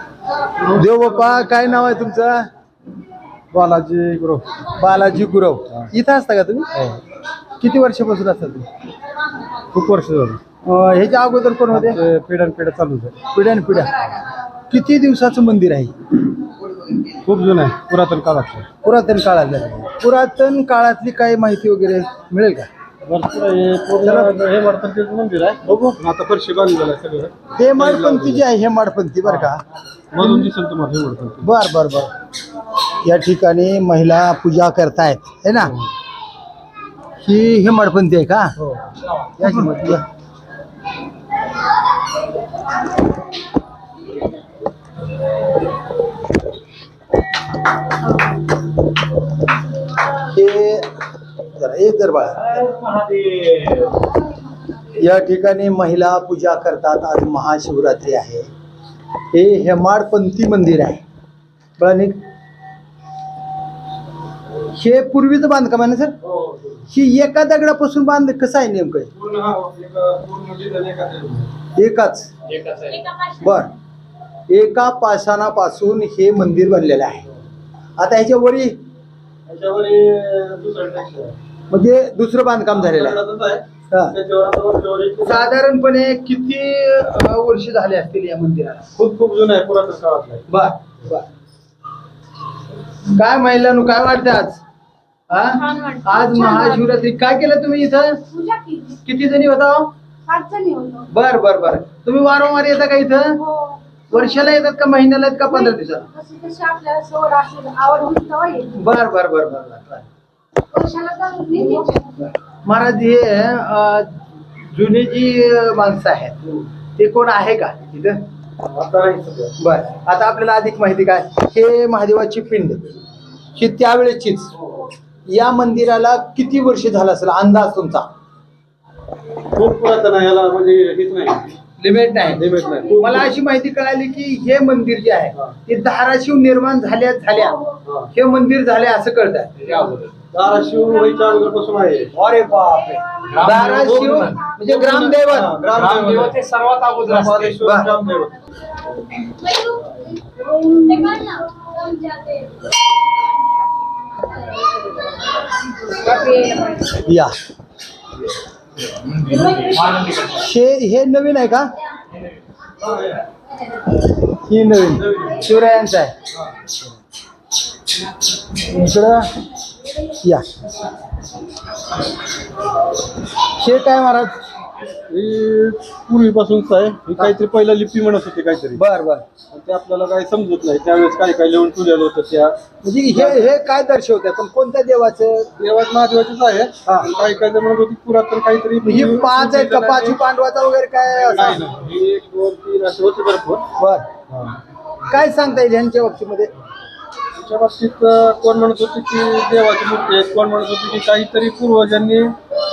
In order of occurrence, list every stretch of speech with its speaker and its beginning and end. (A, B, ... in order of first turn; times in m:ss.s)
0:00.7-0:02.5 A
0:03.5-0:04.5 B
0:04.8-0:06.7 A
0:07.6-0:08.7 A
0:09.7-0:10.4 B
0:10.6-0:12.0 A
0:11.7-0:13.2 B
0:13.3-0:14.1 A
0:14.7-0:15.9 A
0:17.2-0:18.7 B
0:18.8-0:22.7 A
0:23.0-0:28.4 B
0:24.0-0:24.4 A
0:25.7-0:26.0 A
0:27.6-0:29.6 A
0:30.1-0:31.5 B
0:31.4-0:32.1 A
0:33.0-0:35.8 A
0:37.2-0:38.6 A
0:39.4-0:40.0 A
0:50.2-0:50.9 A
0:51.5-0:52.8 A
0:55.0-0:58.5 A
0:59.3-1:01.0 A
1:01.8-1:02.2 A
1:04.7-1:06.2 A
1:06.2-1:06.8 B
1:06.9-1:09.1 A
1:09.2-1:11.5 B
1:11.8-1:12.3 A
1:12.7-1:13.0 B
1:13.2-1:13.7 A
1:14.5-1:17.2 A
1:18.0-1:18.8 A
1:19.5-1:21.4 B
1:21.7-1:23.2 A
1:22.8-1:25.5 B
1:25.2-1:28.9 A
1:29.0-1:30.5 B
1:30.5-1:31.3 A
1:33.1-1:34.6 A
1:35.3-1:38.3 A
1:35.7-1:36.6 C
1:38.3-1:39.0 C
1:39.0-1:39.9 A
1:40.3-1:41.1 C
1:41.1-1:43.5 A
1:44.1-1:46.1 A
1:46.1-1:48.7 C
1:48.7-1:50.1 A
1:50.7-1:52.3 C
1:52.6-1:56.4 A
1:57.0-1:58.2 A
1:58.6-1:59.6 B
1:59.6-2:02.9 A
2:03.6-2:04.5 A
2:05.3-2:08.1 A
2:09.5-2:11.5 B
2:11.8-2:19.9 A
2:12.4-2:13.3 B
2:17.8-2:18.1 B
2:20.3-2:22.1 B
2:22.1-2:25.6 A
2:23.4-2:28.4 B
2:27.6-2:27.9 A
2:29.3-2:32.6 C
2:35.9-2:36.9 C
2:37.0-2:37.4 A
2:40.1-2:41.7 A
2:44.3-2:46.1 A
2:48.6-2:49.3 A
2:53.5-2:54.4 A
2:55.1-2:58.8 B
2:58.8-2:59.2 A
2:59.5-3:02.6 B
3:02.8-3:05.5 A
3:03.1-3:03.5 B
3:05.6-3:10.2 B
3:06.8-3:07.1 A
3:08.8-3:11.6 A
3:11.3-3:13.6 B
3:13.8-3:14.1 A
3:14.3-3:14.6 B
3:15.1-3:16.5 A
3:17.4-3:22.4 B